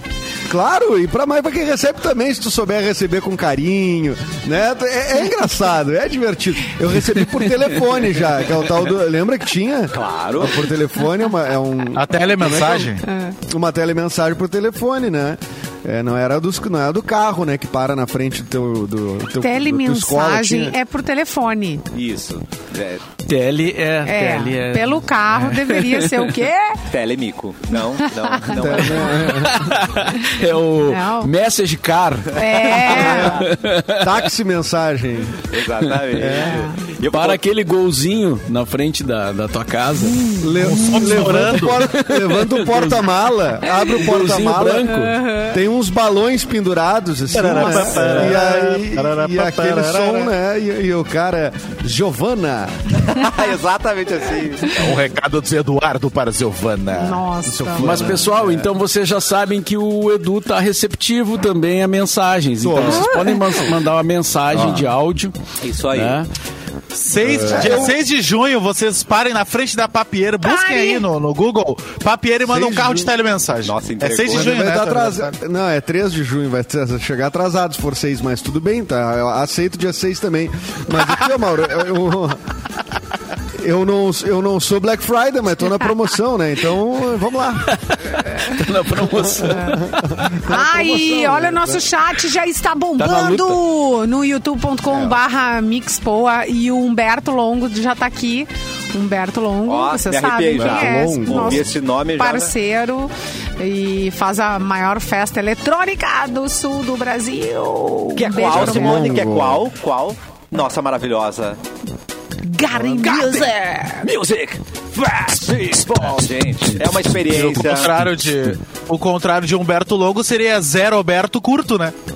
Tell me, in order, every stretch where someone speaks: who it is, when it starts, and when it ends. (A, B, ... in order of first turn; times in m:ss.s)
0:00.5-0:12.9 A
0:09.9-0:10.7 B
0:12.0-0:13.1 C
0:13.0-0:13.4 D
0:13.5-0:20.8 A
0:19.4-0:21.8 D
0:21.9-0:23.0 B
0:23.3-0:26.4 E
0:24.0-0:26.8 D
0:26.9-0:29.5 B
0:28.3-0:29.2 D
0:28.5-0:29.7 A
0:29.0-0:34.2 E
0:30.1-0:31.3 D
0:32.4-0:33.5 D
0:32.8-0:33.4 B
0:32.9-0:35.4 A
0:35.5-0:37.4 B
0:35.8-0:36.2 E
0:36.1-0:36.6 A
0:36.4-0:36.9 D
0:37.1-0:40.2 E
0:40.1-0:41.0 D
0:40.4-0:52.9 A
0:40.6-0:41.8 C
0:41.2-0:45.2 E
0:45.0-0:45.6 D
0:47.3-0:50.3 C
0:53.0-0:54.8 B
0:54.7-0:57.2 C
0:56.9-0:58.2 D
0:57.6-0:58.6 A
0:57.8-1:06.3 E
1:02.6-1:03.2 A
1:02.8-1:03.6 D
1:04.5-1:04.9 A
1:05.6-1:06.2 B
1:06.9-1:15.3 C
1:07.2-1:07.9 E
1:07.2-1:08.0 A
1:10.4-1:11.1 D
1:12.5-1:13.1 A
1:13.6-1:14.6 B
1:14.3-1:22.4 A
1:23.6-1:27.8 A
1:27.7-1:30.3 E
1:29.2-1:31.9 A
1:29.4-1:29.8 D
1:30.4-1:49.3 D
1:33.0-1:33.6 B
1:34.9-1:35.2 A
1:39.7-1:42.5 B
1:40.6-1:41.7 A
1:48.2-1:51.6 B
1:48.5-1:49.7 A
1:52.4-1:54.1 D
1:52.8-1:58.0 B
1:57.2-2:01.9 C